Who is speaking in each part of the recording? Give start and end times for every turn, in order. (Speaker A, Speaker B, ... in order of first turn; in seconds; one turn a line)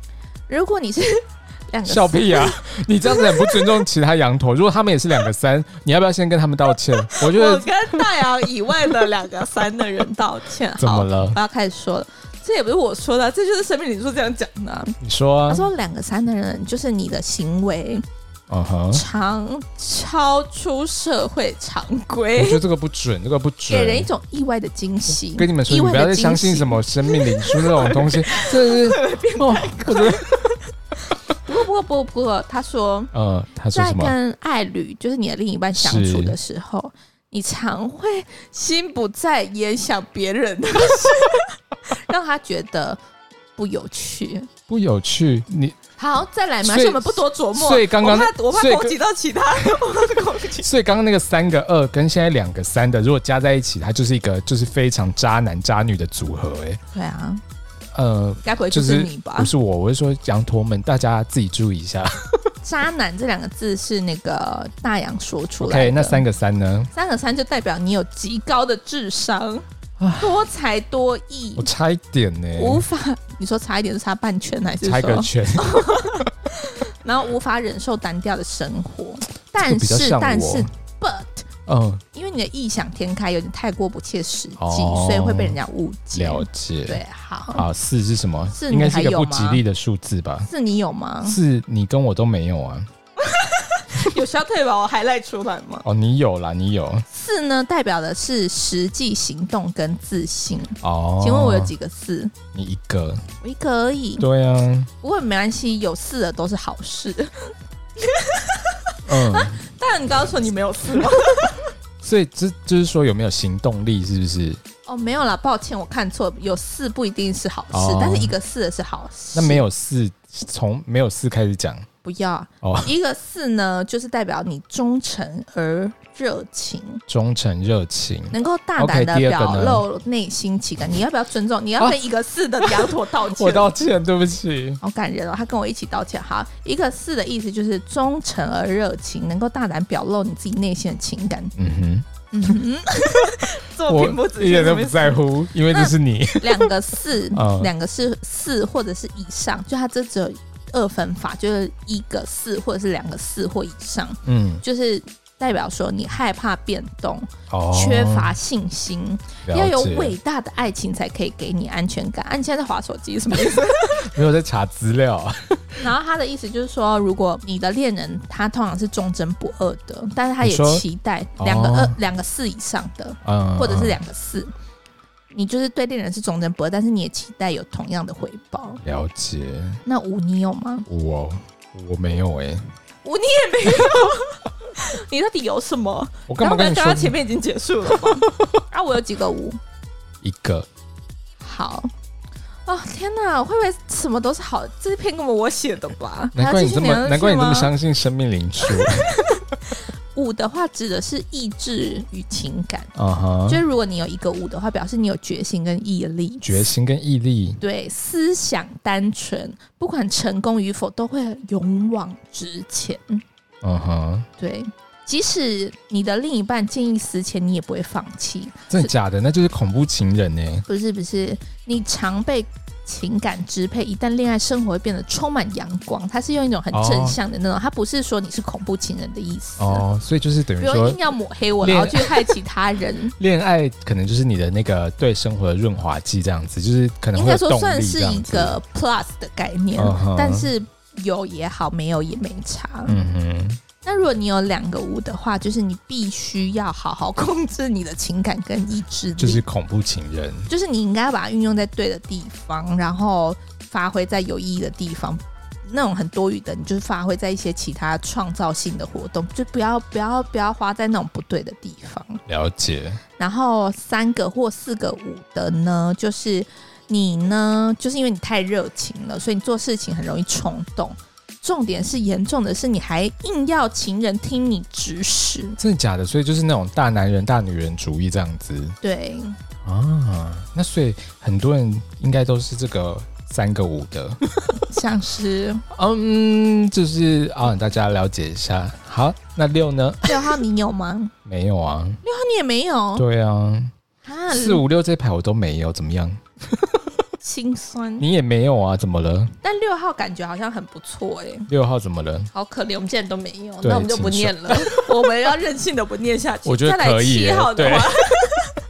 Speaker A: 0.5-3.8
Speaker B: 1.9-8.9
Speaker A: 7.0-15.0
Speaker B: 10.8-11.4
Speaker B: 15.0-15.7
Speaker A: 15.5-18.0
Speaker B: 18.5-19.0
Speaker A: 18.9-22.6
Speaker B: 22.4-24.1
Speaker A: 23.7-33.1
Speaker B: 25.3-30.5
Speaker B: 33.1-34.1
Speaker A: 33.7-43.0
Speaker B: 35.7-36.4
Speaker A: 43.5-44.5
Speaker B: 44.7-45.8
Speaker A: 46.0-50.7
Speaker B: 46.6-48.9
Speaker B: 50.6-56.8
Speaker A: 56.9-57.4
Speaker B: 57.9-62.5
Speaker A: 58.4-59.5
Speaker A: 62.6-66.2
Speaker B: 65.6-66.9
Speaker A: 66.9-69.6
Speaker B: 70.0-70.4
Speaker A: 70.2-71.7
Speaker B: 71.5-72.8
Speaker A: 72.5-81.5
Speaker B: 74.8-76.3
Speaker B: 79.6-80.7
Speaker B: 81.7-82.0
Speaker A: 82.1-87.7
Speaker B: 84.6-85.6
Speaker B: 86.1-87.0
Speaker B: 87.5-90.5
Speaker A: 88.5-89.6
Speaker A: 90.5-91.4
Speaker B: 91.2-92.9
Speaker A: 93.2-95.8
Speaker B: 95.8-97.0
Speaker A: 97.1-102.3
Speaker B: 100.8-101.7
Speaker B: 102.5-103.2
Speaker A: 103.4-104.2
Speaker B: 104.2-104.9
Speaker A: 105.0-111.7
Speaker B: 109.1-109.6
Speaker B: 112.0-114.6
Speaker A: 114.8-119.6
Speaker B: 117.7-118.3
Speaker B: 119.3-121.9
Speaker A: 122.0-127.0
Speaker B: 122.6-122.9
Speaker B: 127.1-129.8
Speaker A: 128.3-133.7
Speaker B: 132.6-134.8
Speaker A: 134.8-141.5
Speaker B: 141.6-142.1
Speaker A: 142.3-164.1
Speaker B: 143.3-146.7
Speaker B: 147.3-147.7
Speaker B: 154.2-154.6
Speaker B: 157.5-158.3
Speaker B: 159.4-160.2
Speaker B: 163.9-165.8
Speaker A: 165.8-174.5
Speaker B: 170.4-170.8
Speaker B: 171.4-172.0
Speaker B: 173.2-174.0
Speaker A: 175.3-178.8
Speaker B: 178.8-179.8
Speaker A: 179.8-180.9
Speaker B: 180.9-182.7
Speaker A: 183.0-189.6
Speaker B: 186.3-187.2
Speaker B: 187.9-188.5
Speaker B: 190.2-190.7
Speaker A: 191.4-191.9
Speaker A: 192.7-197.7
Speaker B: 196.3-199.4
Speaker A: 198.6-202.9
Speaker B: 202.9-203.6
Speaker A: 203.5-206.7
Speaker B: 206.4-207.6
Speaker A: 207.6-213.2
Speaker B: 213.6-214.3
Speaker A: 214.4-218.9
Speaker B: 218.7-220.6
Speaker A: 220.7-229.8
Speaker B: 226.7-227.2
Speaker B: 229.6-231.0
Speaker A: 230.6-233.1
Speaker B: 231.6-232.4
Speaker B: 233.2-238.6
Speaker A: 237.1-243.0
Speaker B: 239.8-240.5
Speaker B: 242.9-243.6
Speaker A: 243.8-249.4
Speaker B: 249.2-250.5
Speaker A: 250.5-262.2
Speaker B: 262.3-263.0
Speaker A: 263.2-275.6
Speaker B: 275.6-278.8
Speaker A: 278.8-279.4
Speaker B: 279.6-284.6
Speaker A: 284.6-285.6
Speaker B: 285.7-290.2
Speaker A: 290.0-291.1
Speaker B: 291.2-292.0
Speaker A: 292.0-293.1
Speaker B: 292.9-293.7
Speaker A: 294.0-294.6
Speaker B: 294.3-296.9
Speaker A: 297.2-298.1
Speaker B: 298.0-299.3
Speaker A: 299.4-301.5
Speaker B: 301.5-302.3
Speaker A: 302.3-308.5
Speaker B: 303.6-305.0
Speaker B: 306.4-307.9